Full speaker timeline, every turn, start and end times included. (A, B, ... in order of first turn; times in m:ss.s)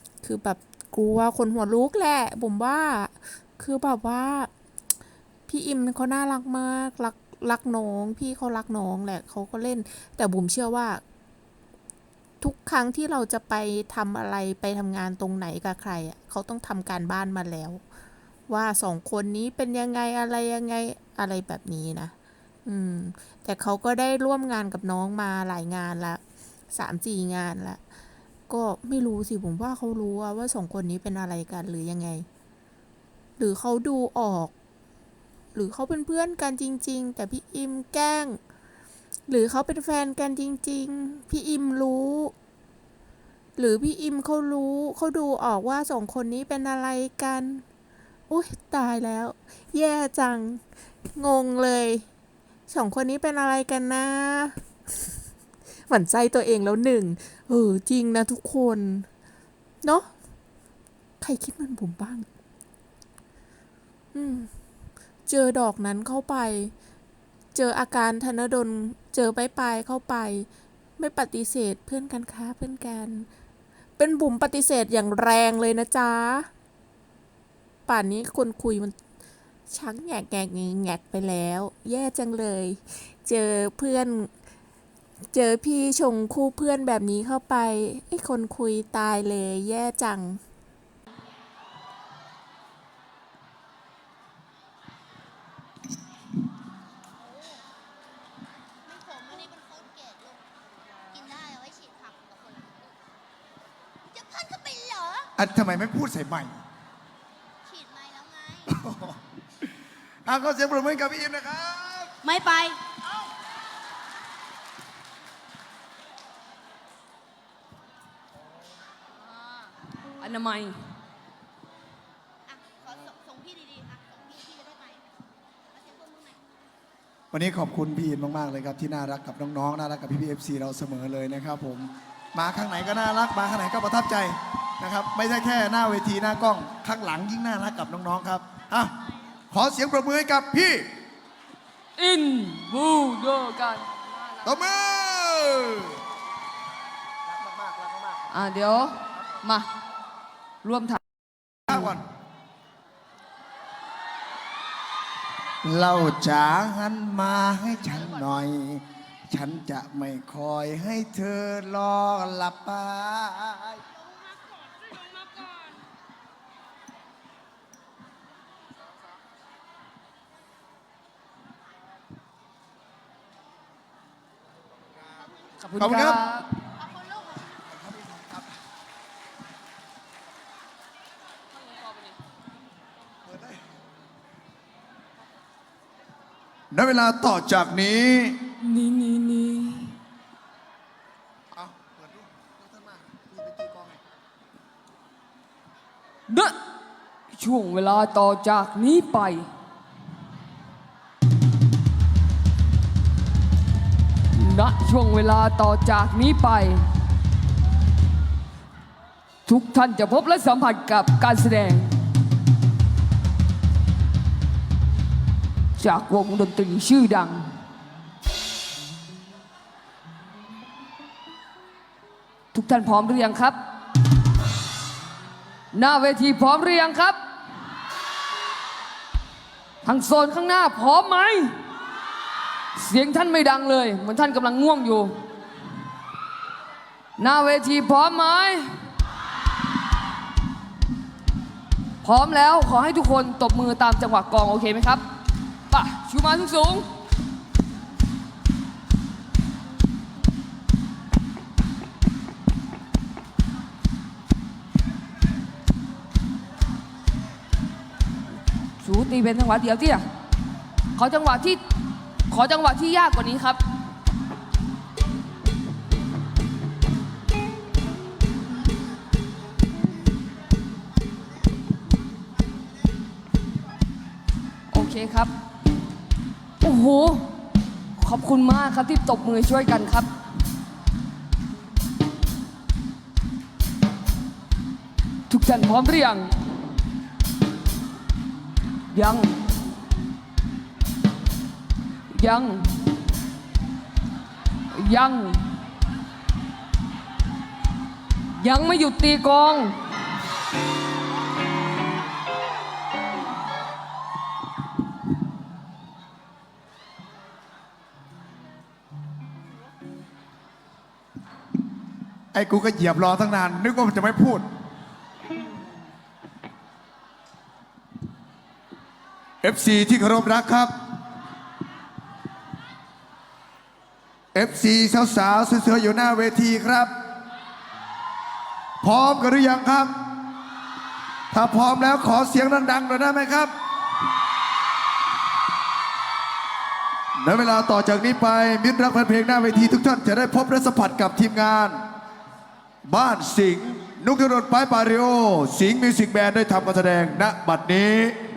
0:00.2-0:04.5 A
0:05.5-0:11.0 A
0:12.4-0:17.8 A
0:18.5-0:27.8 A
0:28.5-0:32.3 A
0:33.4-0:34.5 A
0:35.5-0:38.4 A
0:39.3-0:42.3 A
0:43.6-0:47.6 A
0:48.3-0:50.6 A
0:51.1-0:52.1 A
0:52.7-0:54.6 A
0:55.9-0:59.1 A
0:59.8-1:00.1 A
1:01.2-1:02.3 A
1:04.1-1:04.5 A
1:05.3-1:06.7 A
1:07.5-1:13.3 A
1:14.0-1:16.5 A
1:17.9-1:19.0 A
1:19.7-1:24.3 A
1:25.3-1:30.4 A
1:37.3-1:37.6 B
1:38.8-1:42.9 B
1:44.1-1:45.3 B
1:45.4-1:46.6 C
1:47.6-1:48.7 B
1:48.7-1:49.2 C
1:50.3-1:52.1 C
1:52.2-1:53.0 B
2:00.2-2:00.8 D
2:02.5-2:05.1 B
2:05.7-2:06.4 B
2:07.3-2:19.0 C
2:19.5-2:20.9 C
2:22.0-2:24.0 D
2:24.4-2:26.0 C
2:27.3-2:28.3 C
2:28.3-2:29.7 D
2:30.6-2:31.0 D
2:31.7-2:32.0 C
2:35.6-2:43.8 C
2:44.2-2:45.7 B
2:55.6-2:56.5 D
2:55.8-2:56.2 C
2:56.9-2:57.4 B
2:57.6-2:58.6 C
3:01.7-3:02.1 D
3:03.2-3:03.6 C
3:06.7-3:08.4 C
3:08.6-3:10.0 D
3:11.5-3:14.0 C
3:16.3-3:16.6 D
3:17.3-3:19.5 D
3:24.4-3:26.9 D
3:29.5-3:32.0 D
3:35.8-3:37.6 D
3:42.5-3:43.6 D
3:45.7-3:47.2 D
3:49.8-3:51.6 D
3:52.8-3:55.3 D
3:57.2-3:58.8 D
4:02.0-4:05.0 D
4:05.7-4:06.9 D
4:18.8-4:20.0 D
4:21.0-4:21.6 D
4:22.3-4:23.6 D
4:34.7-4:35.3 D
4:36.6-4:37.4 D
4:38.0-4:40.1 D
4:45.3-4:46.4 D
4:48.9-4:49.4 D
4:52.1-4:52.8 D
4:54.7-4:55.6 D
4:58.4-4:59.8 D
5:12.3-5:14.5 C
5:19.4-5:20.7 C
5:24.3-5:26.9 C
5:28.8-5:29.9 C
5:31.3-5:33.5 C
5:37.2-5:41.8 C
5:42.8-5:48.2 C